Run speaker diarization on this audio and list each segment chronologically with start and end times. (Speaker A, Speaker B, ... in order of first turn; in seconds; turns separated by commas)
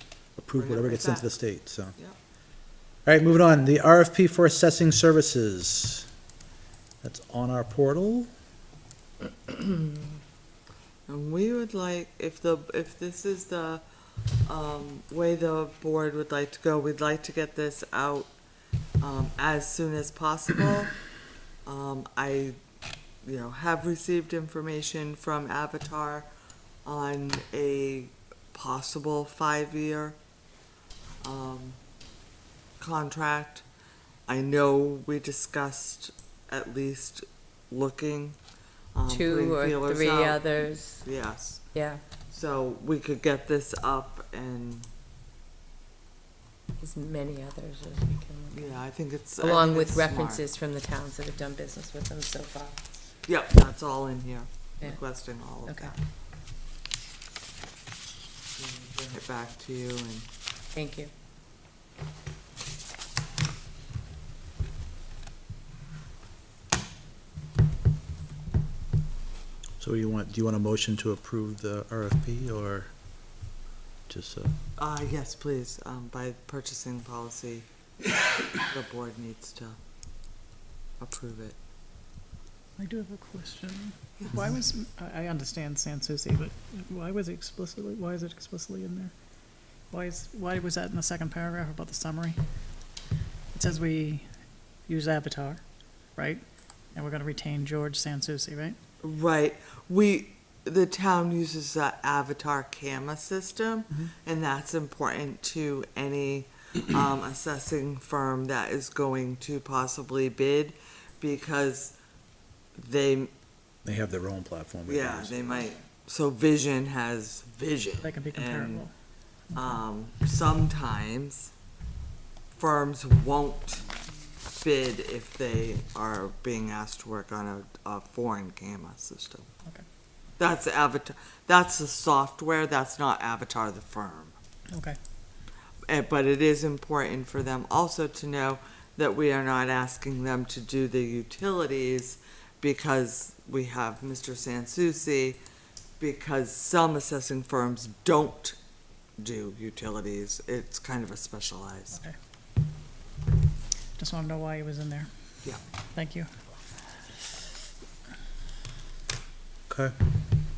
Speaker A: 0.3-1.9, Speaker B: 0.6-1.4, Speaker A: 3.0-6.1, Speaker A: 7.0-8.3, Speaker B: 11.1-13.8, Speaker B: 14.4-18.3, Speaker B: 19.0-20.9, Speaker B: 21.6-22.6, Speaker B: 23.2-26.3, Speaker B: 26.8-30.2, Speaker B: 31.2-31.8, Speaker B: 32.8-33.6, Speaker B: 34.3-38.4, Speaker B: 38.9-41.6, Speaker C: 39.1-41.0, Speaker C: 41.7-42.0, Speaker B: 42.3-44.9, Speaker C: 46.8-48.8, Speaker B: 48.5-50.4, Speaker C: 49.4-52.8, Speaker B: 53.3-56.0, Speaker C: 55.6-55.9, Speaker B: 58.6-60.3, Speaker C: 60.7-61.1, Speaker A: 69.8-72.9, Speaker A: 74.1-74.5, Speaker B: 74.8-77.7, Speaker B: 78.3-79.8, Speaker B: 81.0-81.6, Speaker D: 82.8-89.1, Speaker D: 89.9-92.4, Speaker D: 93.5-94.3, Speaker D: 94.9-95.6, Speaker D: 96.2-96.4, Speaker D: 96.9-98.8, Speaker B: 99.0-112.0, Speaker B: 112.8-113.3, Speaker A: 113.8-115.7, Speaker B: 114.8-118.9, Speaker D: 118.0-118.9, Speaker B: 119.5-121.5, Speaker B: 122.6-123.8, Speaker B: 124.5-129.5, Speaker B: 130.4-134.3, Speaker D: 134.7-135.0, Speaker B: 135.9-145.4, Speaker B: 146.0-148.6, Speaker B: 149.2-152.0, Speaker D: 154.0-155.1, Speaker D: 155.9-156.3, Speaker A: 159.7-159.9